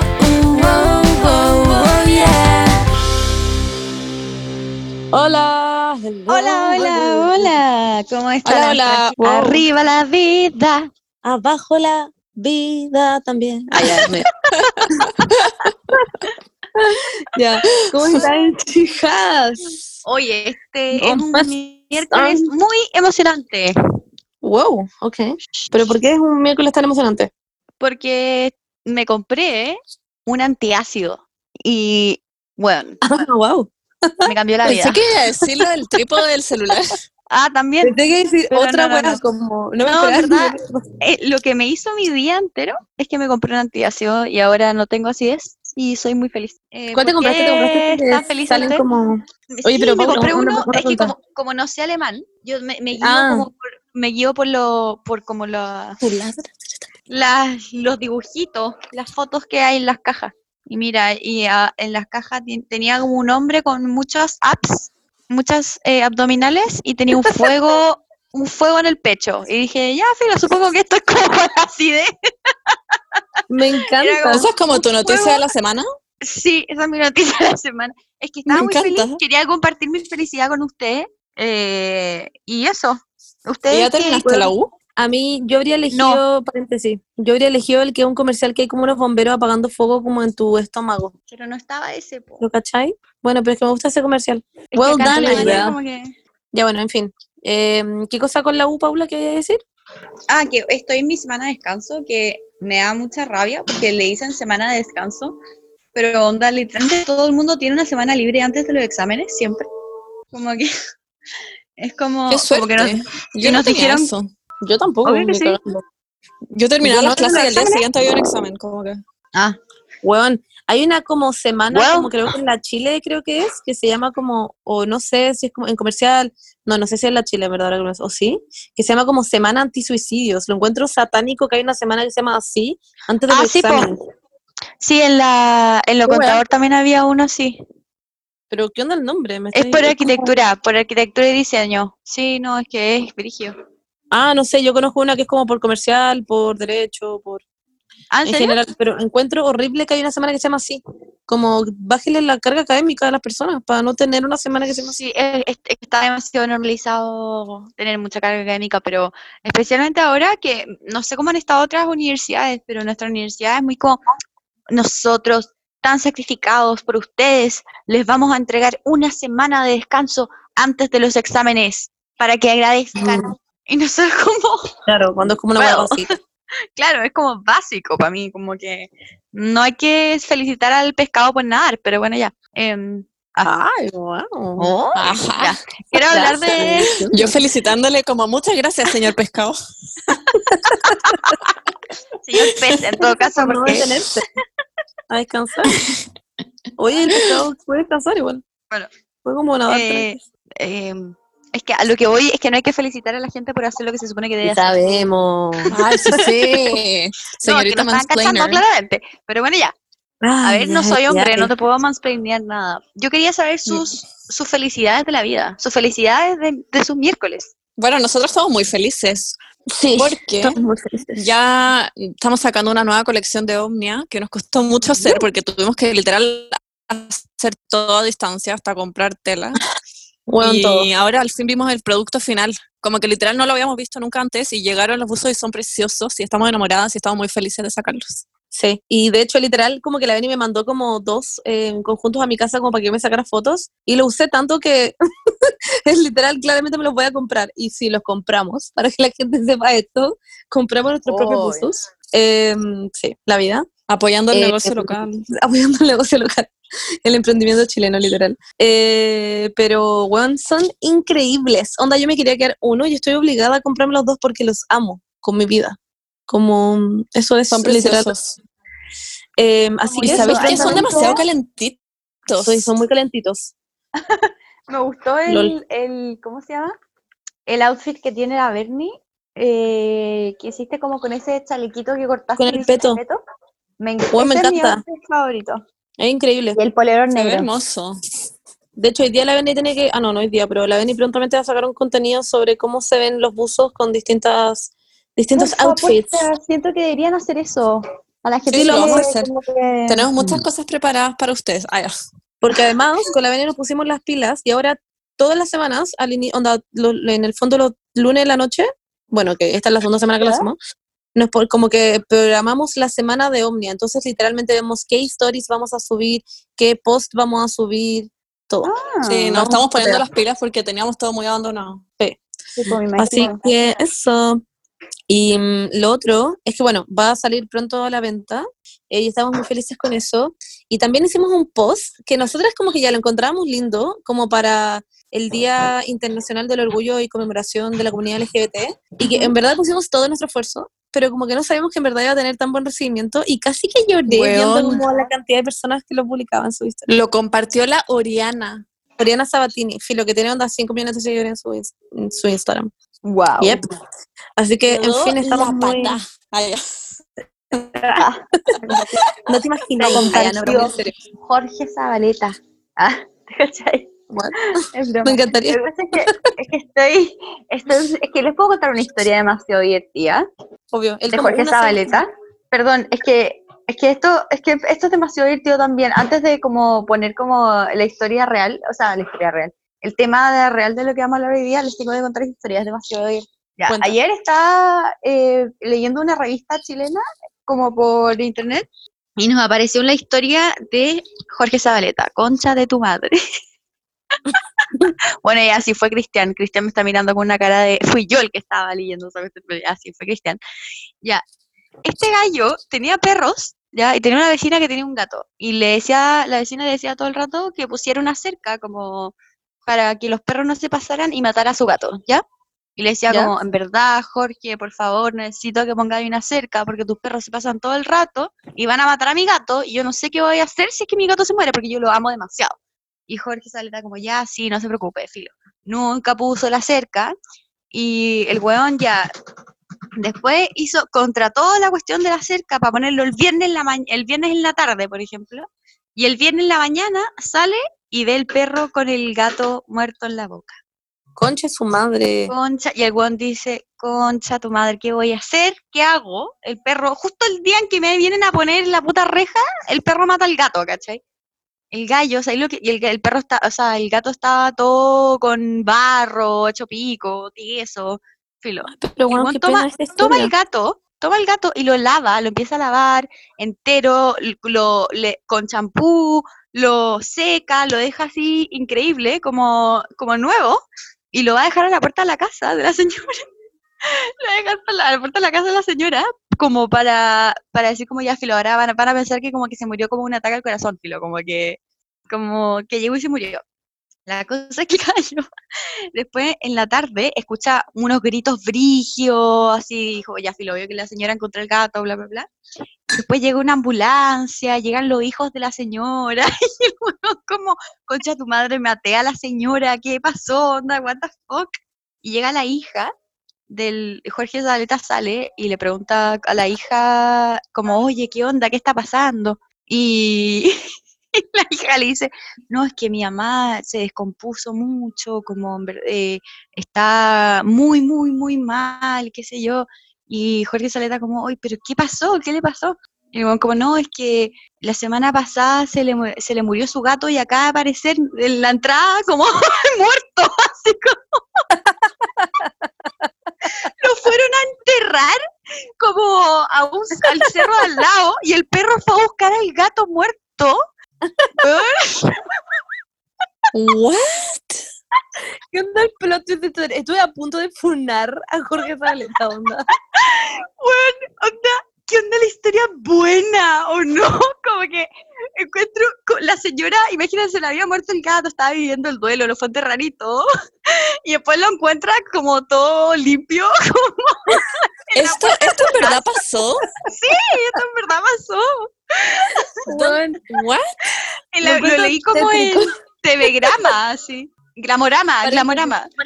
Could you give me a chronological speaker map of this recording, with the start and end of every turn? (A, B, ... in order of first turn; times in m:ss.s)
0:00.9-0:02.8 A
0:01.7-0:02.1 B
0:05.1-0:07.5 C
0:06.3-0:10.9 B
0:08.4-0:09.5 A
0:09.3-0:09.6 C
0:11.2-0:14.3 C
0:14.0-0:15.6 A
0:15.6-0:16.0 C
0:16.8-0:19.6 C
0:17.8-0:18.2 A
0:20.0-0:23.7 B
0:20.9-0:22.5 C
0:24.4-0:27.3 C
0:27.8-0:33.0 B
0:33.0-0:34.8 C
0:34.2-0:35.0 B
0:34.6-0:37.0 A
0:37.3-0:38.0 B
0:37.8-0:40.8 C
0:38.5-0:39.2 B
0:39.8-0:48.8 B
0:46.9-0:51.1 C
0:49.5-0:56.0 B
0:53.0-0:53.5 C
0:56.1-0:56.4 C
0:57.1-1:13.0 B
1:07.1-1:07.7 C
1:13.5-1:14.5 C
1:14.0-1:15.5 B
1:14.3-1:15.8 A
1:16.2-1:24.2 B
1:18.5-1:19.2 A
1:23.7-1:24.7 A
1:24.2-1:31.1 C
1:25.9-1:26.2 B
1:31.3-1:32.4 B
1:32.4-1:35.8 C
1:34.7-1:36.1 B
1:35.3-1:35.7 A
1:36.5-1:39.6 C
1:40.3-1:45.4 B
1:45.9-1:49.7 B
1:50.3-1:50.7 B
1:51.8-1:54.1 B
1:52.3-1:54.3 A
1:54.6-1:55.8 C
1:55.0-1:55.6 B
1:56.5-1:59.0 A
1:56.8-1:57.7 C
1:57.0-1:57.8 B
2:00.0-2:14.0 C
2:01.7-2:02.1 B
2:13.3-2:13.9 B
2:14.8-2:17.6 B
2:16.0-2:16.4 C
2:18.5-2:20.4 C
2:19.5-2:23.5 B
2:24.1-2:27.4 C
2:28.1-2:28.6 B
2:28.2-2:34.9 C
2:34.9-2:44.0 B
2:44.7-2:54.6 B
2:53.0-2:53.3 C
2:54.9-2:56.1 C
2:55.6-2:56.1 B
2:56.8-3:03.5 B
3:03.4-3:04.7 C
3:04.6-3:07.0 B
3:04.9-3:05.6 A
3:06.1-3:07.4 C
3:06.1-3:09.6 A
3:10.3-3:11.3 C
3:12.2-3:13.9 B
3:12.5-3:12.8 A
3:13.0-3:14.2 C
3:15.1-3:15.7 C
3:16.8-3:18.4 C
3:19.2-3:20.1 C
3:19.7-3:24.8 B
3:24.4-3:26.3 C
3:25.7-3:28.6 A
3:27.4-3:29.7 B
3:30.2-3:31.5 C
3:30.4-3:37.5 B
3:37.8-3:39.3 A
3:39.7-3:41.2 C
3:40.0-3:40.5 A
3:41.2-3:49.6 A
3:50.3-3:50.9 C
3:50.4-3:58.2 A
3:58.5-4:13.6 C
4:11.1-4:11.7 B
4:13.9-4:15.2 A
4:14.3-4:16.5 C
4:17.0-4:25.8 C
4:26.3-4:28.1 C
4:27.5-4:28.4 A
4:29.4-4:31.2 C
4:29.8-4:31.2 B
4:30.0-4:32.7 A
4:32.4-4:33.5 C
4:34.0-4:36.7 B
4:35.3-4:35.6 C
4:37.4-4:43.2 B
4:42.4-4:43.0 C
4:43.8-4:45.6 B
4:44.1-4:44.8 C
4:46.0-4:46.6 C
4:46.5-4:47.5 B
4:47.1-4:48.0 A
4:48.8-4:56.2 C
4:55.3-5:00.1 B
4:58.5-4:59.3 A
4:58.5-4:59.3 C
4:59.9-5:01.9 A
5:02.4-5:10.6 C
5:10.2-5:10.5 B
5:11.1-5:18.7 C
5:18.6-5:19.4 B
5:19.0-5:21.8 A
5:19.3-5:20.0 C
5:22.0-5:24.4 C
5:22.6-5:23.5 B
5:25.1-5:46.9 C
5:39.0-5:39.3 B
5:44.1-5:44.8 A
5:46.9-5:48.6 A
5:49.0-5:52.7 C
5:53.0-5:53.6 B
5:54.4-5:56.0 C
5:54.7-5:56.9 A
5:57.5-6:00.9 C
5:58.0-5:58.2 B
5:59.8-6:03.9 B
6:04.6-6:10.2 B
6:05.0-6:06.2 C
6:10.7-6:12.0 C
6:11.1-6:28.7 B
6:23.7-6:24.0 C
6:29.2-6:33.2 B
6:34.3-6:40.4 B
6:41.8-6:52.2 B
6:52.8-7:02.6 B
6:53.1-6:53.3 C
7:03.1-7:07.2 B
7:07.7-7:09.1 B
7:10.0-7:20.6 B
7:21.2-7:22.3 C
7:22.3-7:31.0 B
7:31.7-7:53.2 B
7:38.7-7:40.3 C
7:53.8-8:03.4 B
8:04.0-8:05.2 B
8:05.9-8:12.3 B
8:12.9-8:21.5 B
8:22.0-8:22.9 B
8:23.5-8:30.6 B
8:31.1-8:51.4 B
8:51.6-8:52.5 C
8:53.6-8:55.2 B
8:55.8-9:00.6 B
8:57.0-8:57.6 C
9:01.4-9:02.2 B
9:03.5-9:04.6 A
9:05.5-9:09.6 C
9:09.9-9:26.0 B
9:24.9-9:26.7 A
9:26.8-9:29.4 B
9:29.6-9:30.2 C
9:29.7-9:30.6 A
9:31.3-9:35.9 B
9:31.4-9:32.6 C
9:35.2-9:35.7 C